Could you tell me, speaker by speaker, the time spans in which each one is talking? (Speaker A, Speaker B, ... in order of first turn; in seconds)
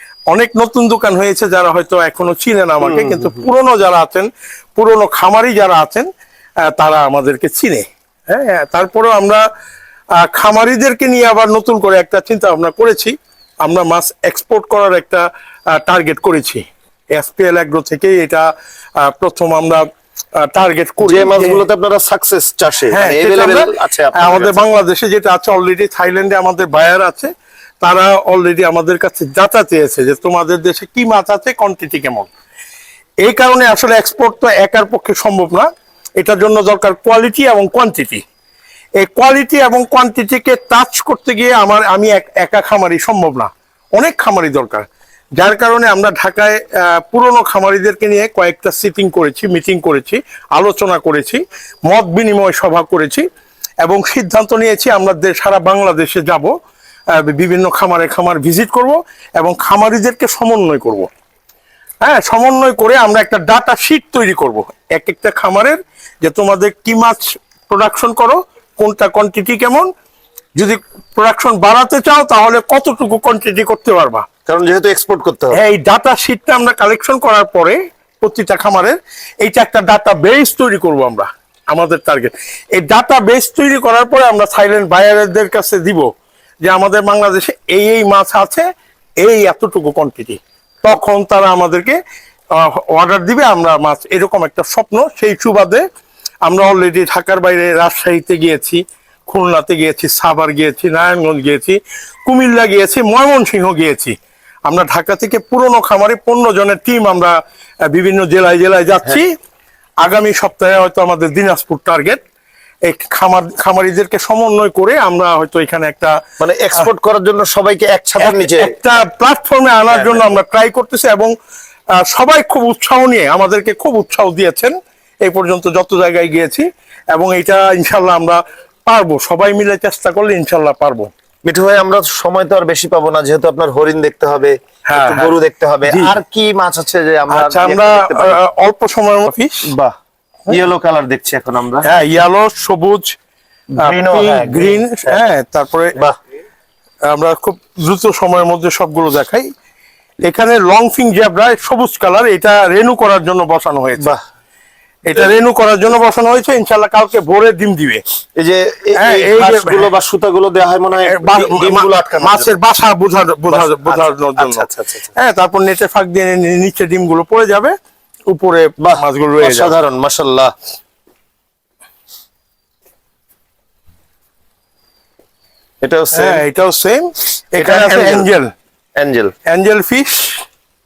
Speaker A: 0.3-6.1, 6.6-9.4, 10.2-21.6, 22.9-32.3, 33.2-38.2, 39.0-53.3, 53.8-56.5, 57.1-61.1, 62.0-69.9, 70.6-74.3, 75.5-86.1, 86.6-88.7, 89.2-92.0, 92.5-95.9, 96.5-104.2, 104.7-109.3, 110.0-112.2, 112.8-116.2, 118.2-121.3, 121.9-131.1, 134.9-135.3, 135.9-136.2, 137.3-139.7, 141.8-143.2, 143.8-146.0, 147.1-149.5, 150.2-154.1, 155.1-158.0, 159.0-159.9, 161.1-164.7, 165.2-167.8, 168.3-169.7, 176.1-178.5, 179.5-180.4
Speaker B: 2.8-3.5, 21.0-24.6, 74.5-75.6, 116.4-118.7, 119.9-120.4, 131.4-138.4, 139.7-139.9, 140.5-141.9, 143.7-145.2, 158.4-162.6, 163.5-165.1, 168.8-170.5, 175.8-176.4, 177.6-178.3, 179.0-179.3